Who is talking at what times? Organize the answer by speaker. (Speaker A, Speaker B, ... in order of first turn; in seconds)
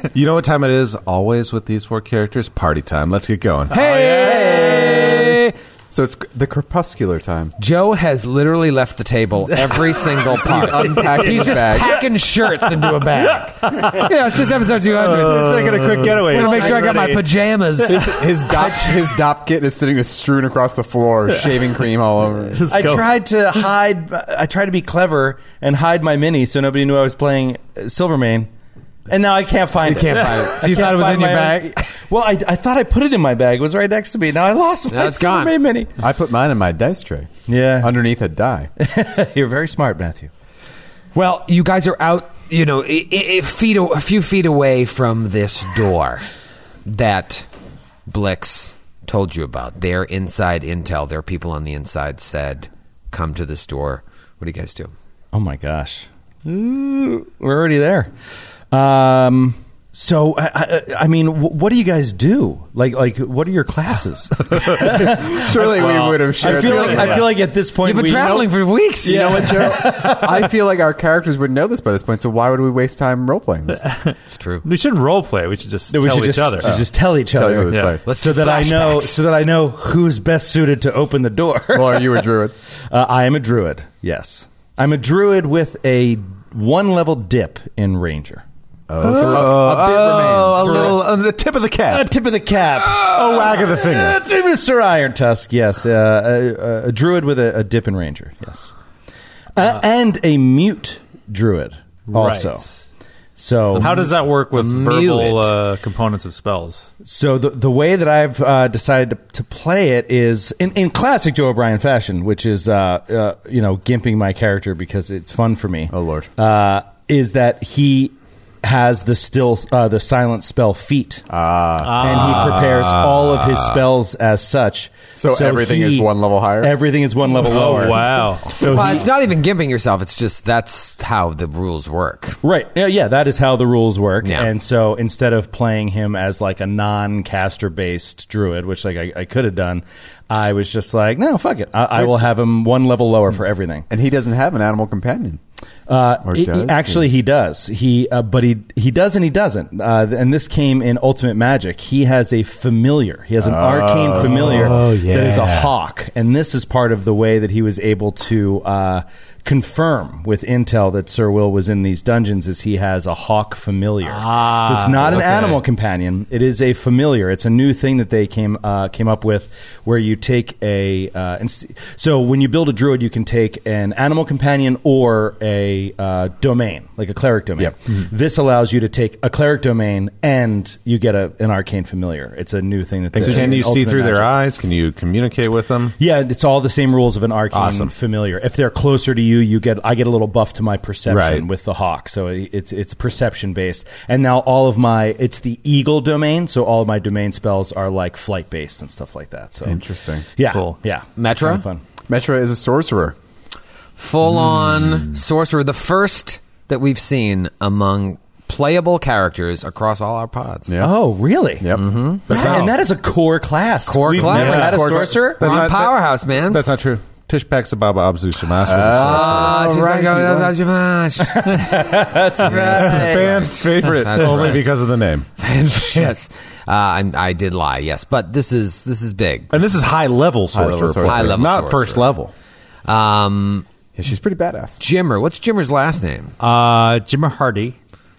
Speaker A: 0.1-3.7, 88.9-92.1, 92.9-94.2, 122.0-123.8, 154.2-155.7, 183.1-185.9, 187.5-187.9, 191.1-191.4, 212.3-212.7, 214.1-219.7, 222.4-225.3, 225.9-226.1, 229.5-232.3
Speaker B: 3.7-4.8, 11.1-11.6, 12.7-17.2, 22.5-23.1, 65.7-67.3, 73.8-76.7, 77.7-78.0, 102.1-102.8, 103.8-106.9, 121.8-122.6, 127.4-129.1, 164.0-165.6, 200.5-200.8, 204.4-205.2, 214.3-214.7, 236.4-237.8
Speaker C: 3.7-5.5, 7.6-19.0, 29.8-31.8, 34.9-35.5, 41.1-46.2, 46.9-47.5, 48.1-54.9, 67.8-69.8, 74.4-74.6, 78.0-79.1, 103.8-105.5, 128.6-132.4, 134.2-134.5, 201.2-201.6, 204.0-210.7, 211.7-212.6, 213.8-216.6, 218.7-221.6, 222.4-224.8, 225.4-229.6, 231.0-232.1, 232.8-233.6, 234.8-236.3
Speaker D: 4.1-7.5, 10.2-12.0, 17.8-22.7, 36.0-38.7, 64.8-67.4, 68.0-68.5, 69.0-73.8, 76.6-78.0, 81.7-82.5, 88.9-91.0, 115.9-116.3, 121.3-122.1, 125.2-126.8, 143.9-145.4, 146.2-147.0, 153.4-154.8, 183.2-183.6, 199.6-200.2, 202.1-203.2, 210.7-211.0, 211.6-212.7, 218.6-220.6, 230.5-231.5, 233.9-234.8
Speaker E: 16.3-17.1, 22.7-28.5, 29.1-35.9, 37.5-37.9, 38.8-40.3, 55.3-58.1, 58.7-65.5, 66.4-68.5, 69.0-70.5, 75.9-82.3, 82.9-88.4, 90.6-91.0, 91.9-98.7, 99.5-102.6, 103.4-104.0, 107.0-121.2, 122.0-129.1, 132.4-143.9, 145.9-184.3, 186.0-199.8, 200.4-201.8, 210.8-211.7, 212.3-215.5, 221.2-223.4